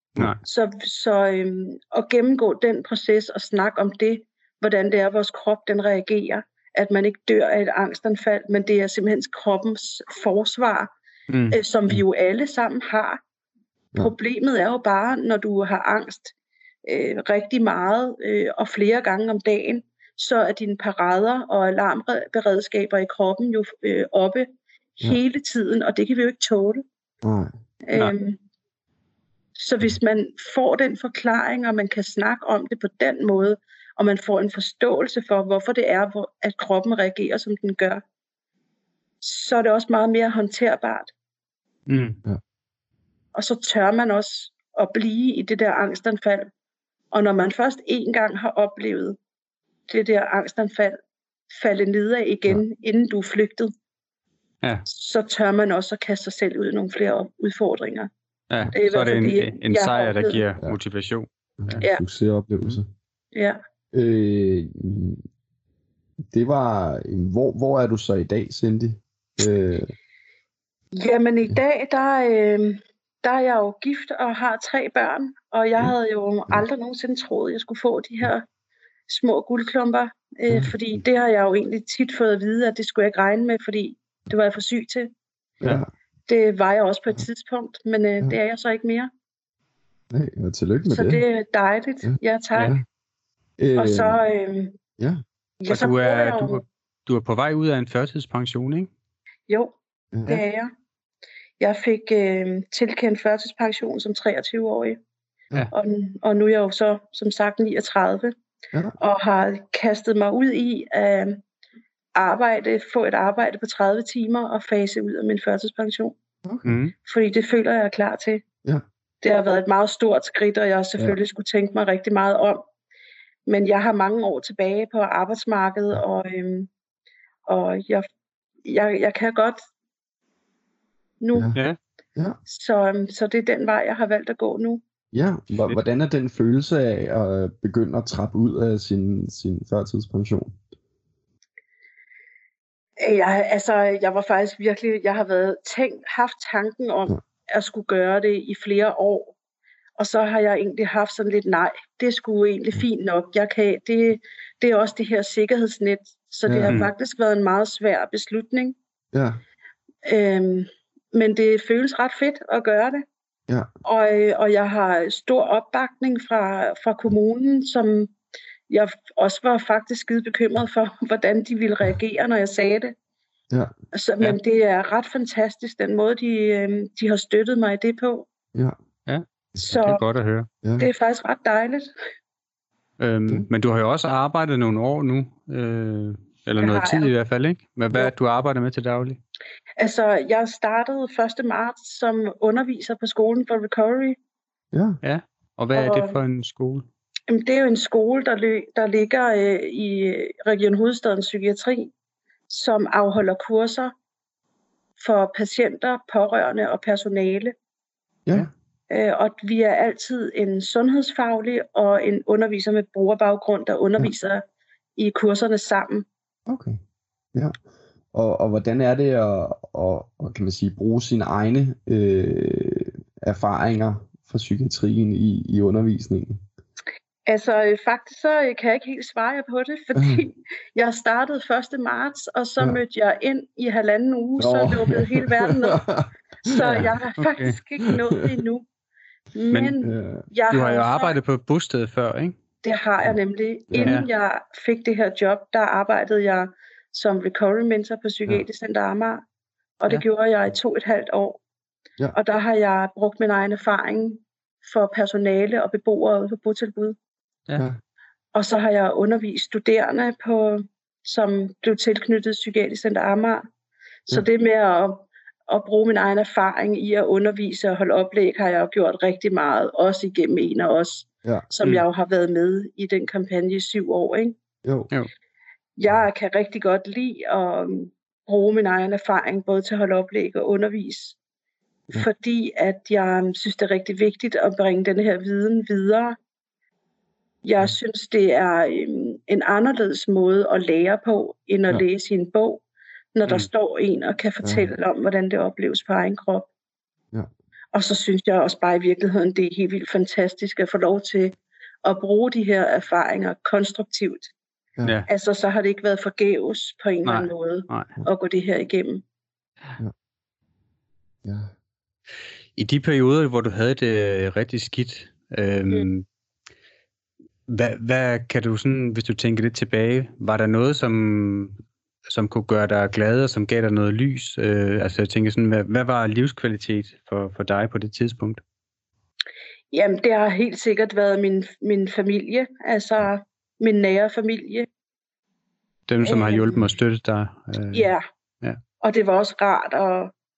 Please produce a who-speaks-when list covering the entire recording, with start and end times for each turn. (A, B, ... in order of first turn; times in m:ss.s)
0:00.4-0:10.9 A
0:11.3-0:11.6 B
0:11.5-0:13.2 A
0:14.0-0:16.3 A
0:16.9-0:26.8 A
0:27.2-0:27.5 C
0:27.9-0:28.4 A
0:29.6-0:38.0 A
0:39.2-0:41.1 A
0:41.9-0:42.2 B
0:43.4-0:46.5 A
0:47.1-0:49.2 A
0:49.9-0:51.0 A
0:51.5-0:53.7 A
0:54.9-0:58.1 A
0:58.5-1:01.8 B
0:58.7-1:00.4 A
1:01.6-1:02.9 C
1:03.3-1:03.6 A
1:03.9-1:05.2 C
1:06.3-1:09.9 C
1:11.0-1:18.5 A
1:19.1-1:25.1 A
1:20.5-1:21.0 C
1:25.6-1:25.9 C
1:26.3-1:29.1 A
1:30.1-1:31.2 C
1:30.9-1:32.8 A
1:32.0-1:32.9 C
1:33.6-1:34.2 C
1:33.8-1:34.8 A
1:35.6-1:36.6 A
1:35.7-1:38.9 B
1:39.5-1:39.7 A
1:40.1-1:40.4 C
1:40.3-1:40.7 A
1:41.6-1:45.0 A
1:45.7-1:48.4 A
1:49.0-1:51.4 A
1:52.2-1:56.2 A
1:56.4-1:56.8 C
1:56.6-1:56.9 B
1:57.0-1:58.4 A
1:59.2-2:02.7 A
2:03.5-2:06.7 A
2:07.5-2:08.1 A
2:08.6-2:09.7 A
2:11.2-2:11.6 A
2:12.5-2:14.8 A
2:15.1-2:20.6 C
2:23.0-2:29.4 A
2:30.0-2:38.8 A
2:36.5-2:36.8 C
2:39.1-2:39.4 C
2:40.0-2:43.0 A
2:43.8-2:48.1 A
2:48.7-2:52.9 A
2:53.9-2:58.3 A
2:59.1-3:00.5 B
2:59.6-3:00.0 A
3:00.6-3:00.9 C
3:00.8-3:01.9 A
3:03.0-3:09.2 B
3:06.6-3:07.1 A
3:09.8-3:14.2 A
3:14.7-3:15.0 C
3:15.0-3:16.9 B
3:15.7-3:16.2 A
3:17.3-3:21.9 A
3:22.5-3:23.9 A
3:25.0-3:27.5 A
3:28.9-3:34.4 A
3:35.0-3:36.1 A
3:36.5-3:36.8 C
3:37.3-3:37.6 C
3:38.1-3:46.4 C
3:47.3-3:55.8 A
3:50.0-3:50.2 C
3:54.4-3:56.9 C
3:56.4-3:58.7 A
3:56.6-3:57.6 B
3:59.3-4:01.2 A
3:59.8-4:00.3 C
4:00.5-4:02.4 B
4:02.6-4:09.2 A
4:03.7-4:04.0 C
4:09.8-4:11.4 A
4:12.1-4:17.0 A
4:17.6-4:17.8 C
4:18.3-4:23.4 A
4:24.1-4:34.4 A
4:34.6-4:34.9 C
4:35.8-4:41.2 A
4:42.0-4:46.2 A
4:47.4-4:52.6 A
4:53.2-4:56.5 A
4:54.4-4:54.7 C
4:57.7-5:04.3 A
5:05.1-5:09.0 A
5:07.0-5:07.9 B
5:11.2-5:11.5 C
5:12.6-5:16.1 B
5:17.5-5:28.4 B
5:29.7-5:34.7 A
5:35.9-5:37.9 B
5:36.0-5:36.6 A
5:37.7-5:38.0 A
5:38.8-5:40.1 A